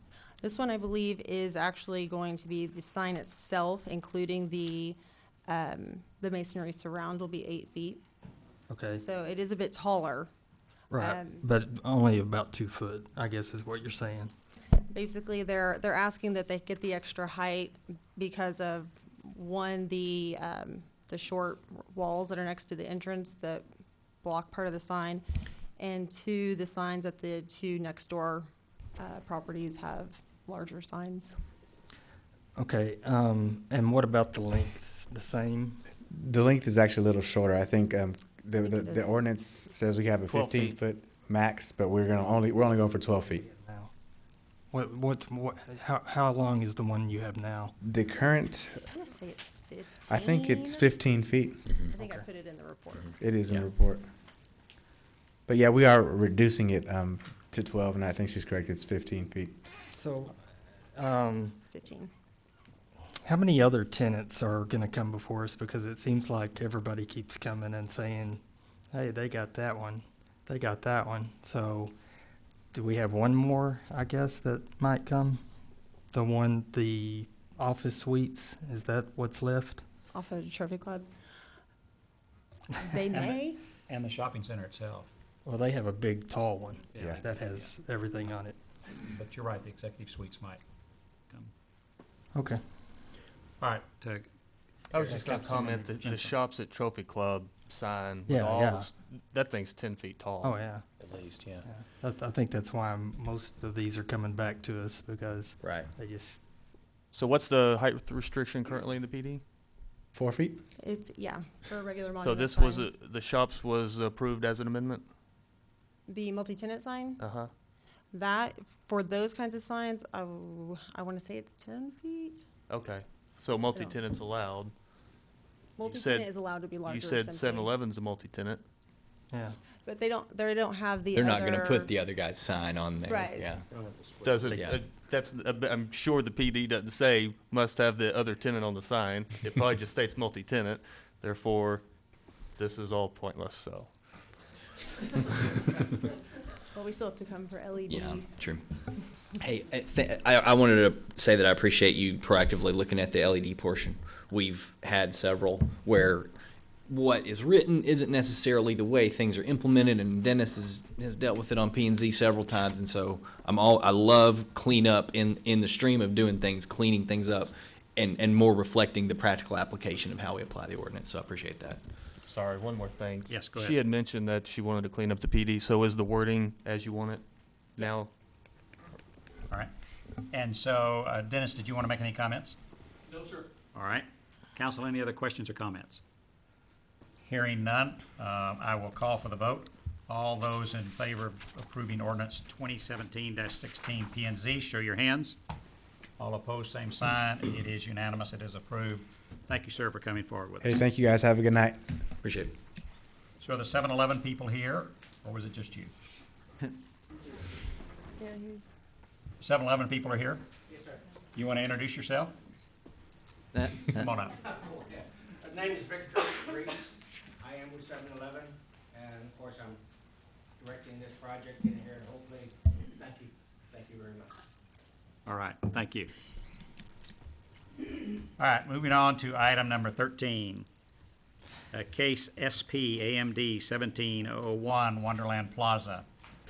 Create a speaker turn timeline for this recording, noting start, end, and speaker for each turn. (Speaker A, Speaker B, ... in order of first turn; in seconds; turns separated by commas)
Speaker A: 0.4-5.0, Speaker A: 5.5-8.0, Speaker B: 8.7-9.0, Speaker A: 9.0-10.3, Speaker B: 10.9-14.3, Speaker A: 10.9-11.5, Speaker A: 14.9-23.6, Speaker A: 24.2-25.2, Speaker A: 25.8-31.3, Speaker B: 32.6-35.8, Speaker C: 36.1-43.5, Speaker A: 38.7-39.1, Speaker D: 40.3-40.8, Speaker B: 43.4-43.9, Speaker B: 44.7-47.8, Speaker C: 47.8-48.9, Speaker A: 48.9-50.9, Speaker C: 50.1-51.7, Speaker A: 51.9-53.1, Speaker C: 53.2-54.1, Speaker C: 55.5-59.5, Speaker B: 59.9-60.4, Speaker B: 61.0-61.6, Speaker A: 61.7-62.1, Speaker B: 63.2-71.9, Speaker B: 72.7-75.4, Speaker B: 76.1-79.8, Speaker A: 80.1-81.1, Speaker A: 82.8-83.6, Speaker E: 83.9-85.1, Speaker B: 85.5-88.6, Speaker E: 87.0-87.7, Speaker C: 87.0-87.2, Speaker E: 89.1-90.6, Speaker B: 92.3-92.6, Speaker E: 93.6-94.3, Speaker E: 94.9-96.3, Speaker D: 94.9-100.6, Speaker B: 98.3-98.9, Speaker B: 100.4-100.8, Speaker F: 101.0-101.7, Speaker B: 101.6-106.4, Speaker F: 105.6-105.9, Speaker D: 107.1-109.4, Speaker C: 110.1-110.6, Speaker A: 110.8-112.9, Speaker D: 112.2-115.1, Speaker A: 116.1-117.2, Speaker D: 117.2-117.5, Speaker A: 118.1-122.4, Speaker D: 122.7-124.7, Speaker A: 125.8-127.7, Speaker D: 125.9-126.3, Speaker D: 126.8-128.6, Speaker B: 129.3-129.6, Speaker A: 129.8-131.9, Speaker F: 131.1-133.7, Speaker A: 133.1-133.5, Speaker E: 133.7-134.3, Speaker D: 134.2-141.8, Speaker F: 134.5-134.8, Speaker D: 142.5-143.9, Speaker A: 146.7-148.3, Speaker F: 147.9-148.7, Speaker F: 149.4-156.3, Speaker F: 156.9-171.8, Speaker D: 172.3-177.2, Speaker E: 173.3-173.8, Speaker D: 177.8-178.1, Speaker A: 177.8-178.1, Speaker E: 180.3-182.6, Speaker G: 183.1-183.5, Speaker E: 183.7-186.0, Speaker E: 187.2-195.4, Speaker E: 196.2-200.8, Speaker C: 200.6-201.9, Speaker F: 202.2-202.5, Speaker E: 203.4-205.9, Speaker A: 208.2-208.8, Speaker E: 209.4-210.4, Speaker G: 210.7-211.0, Speaker E: 211.3-212.3, Speaker E: 213.6-214.4, Speaker G: 214.5-219.8, Speaker G: 220.6-224.3, Speaker E: 225.3-226.1, Speaker E: 228.4-230.7, Speaker E: 231.7-236.1